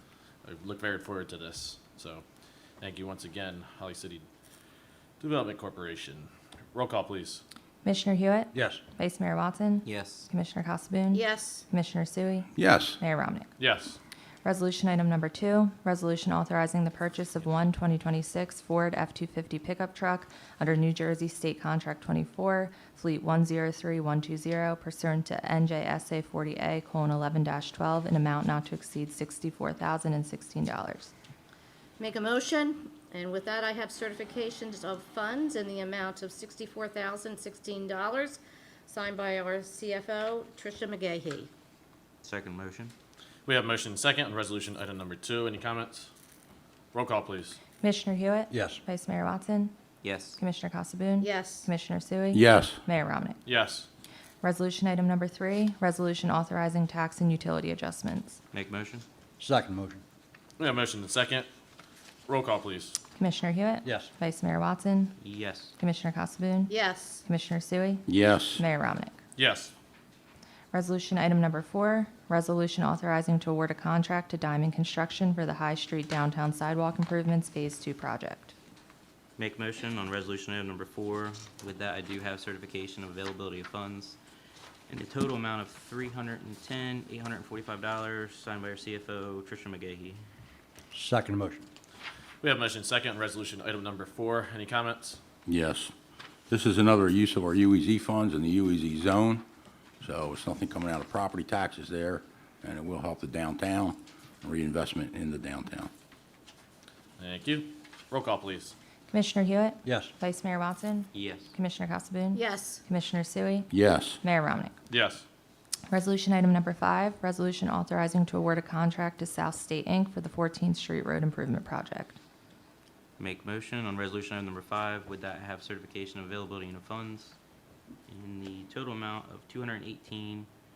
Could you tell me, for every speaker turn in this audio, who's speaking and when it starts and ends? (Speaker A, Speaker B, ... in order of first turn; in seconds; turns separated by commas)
Speaker A: 0.4-2.2, Speaker A: 2.8-4.2, Speaker A: 5.2-7.4, Speaker B: 7.8-13.5, Speaker C: 8.5-8.8, Speaker D: 9.8-10.3, Speaker E: 11.1-11.7, Speaker F: 12.6-13.0, Speaker A: 13.6-14.0, Speaker B: 14.4-31.1, Speaker E: 32.0-41.5, Speaker D: 42.2-42.9, Speaker A: 43.5-46.1, Speaker A: 46.9-47.6, Speaker B: 47.8-49.7, Speaker C: 48.5-48.8, Speaker D: 50.0-50.4, Speaker B: 50.4-53.4, Speaker E: 51.2-51.7, Speaker F: 52.3-52.8, Speaker A: 53.4-53.9, Speaker B: 54.4-58.4, Speaker D: 58.5-59.0, Speaker C: 59.4-60.0, Speaker A: 60.6-61.5, Speaker A: 62.3-63.0, Speaker B: 63.1-65.2, Speaker C: 63.8-64.1, Speaker D: 65.2-65.7, Speaker B: 65.8-66.7, Speaker E: 66.7-67.3, Speaker B: 67.2-69.2, Speaker F: 68.0-68.6, Speaker A: 69.3-69.7, Speaker B: 70.7-78.5, Speaker D: 79.4-84.2, Speaker D: 84.9-90.2, Speaker C: 90.9-91.7, Speaker A: 92.4-95.2, Speaker F: 95.5-95.9, Speaker F: 96.5-99.4, Speaker F: 100.0-105.9, Speaker A: 107.2-108.7, Speaker B: 109.1-114.7, Speaker C: 109.8-110.1, Speaker D: 111.1-111.5, Speaker E: 112.3-112.8, Speaker F: 113.7-114.2, Speaker A: 114.9-115.2, Speaker B: 115.9-122.2, Speaker D: 123.2-127.3, Speaker D: 128.1-130.5